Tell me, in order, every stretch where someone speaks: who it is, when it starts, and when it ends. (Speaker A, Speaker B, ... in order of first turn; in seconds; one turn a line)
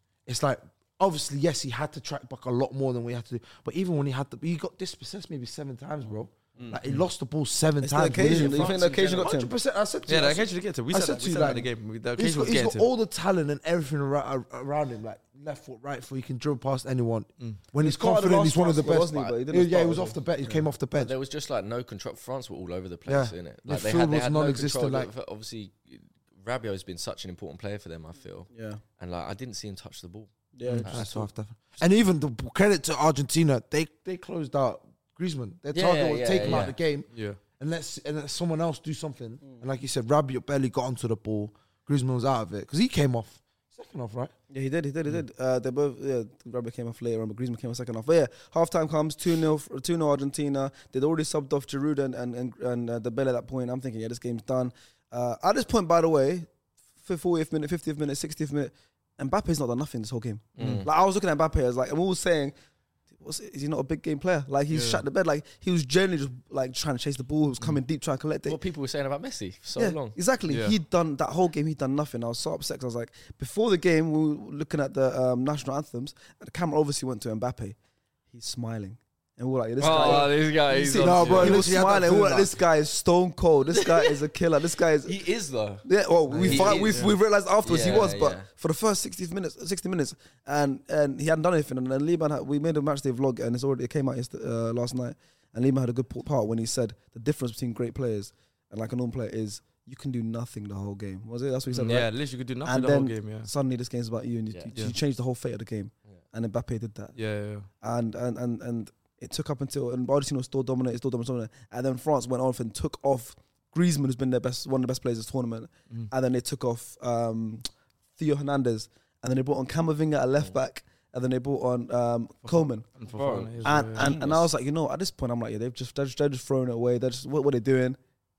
Speaker A: 0.2-21.1
Speaker B: 7.8-9.5
Speaker C: 8.2-9.3
Speaker D: 10.1-12.9
Speaker B: 17.8-20.6
Speaker C: 18.9-19.3
Speaker C: 20.9-31.3
Speaker A: 23.1-25.1
Speaker B: 28.5-28.8
Speaker B: 30.5-30.9
Speaker D: 30.6-30.9
Speaker A: 30.9-44.3
Speaker C: 35.7-36.8
Speaker D: 36.4-37.4
Speaker B: 44.5-56.5
Speaker B: 57.0-62.5
Speaker C: 60.5-60.9
Speaker D: 60.6-60.9
Speaker B: 63.2-68.6
Speaker D: 64.7-65.0
Speaker C: 68.5-70.2
Speaker B: 69.8-77.8
Speaker D: 70.5-70.8
Speaker B: 78.3-80.3
Speaker C: 79.8-81.6
Speaker A: 79.9-82.5
Speaker D: 81.0-81.5
Speaker B: 81.3-85.2
Speaker C: 83.7-84.1
Speaker C: 85.0-85.8
Speaker B: 85.8-107.2
Speaker D: 86.3-87.1
Speaker C: 86.4-87.1
Speaker C: 87.6-88.5
Speaker D: 101.7-103.5
Speaker D: 107.1-107.7
Speaker B: 107.8-117.7
Speaker B: 118.2-122.8
Speaker D: 122.4-124.5
Speaker C: 123.1-124.2
Speaker B: 123.6-128.0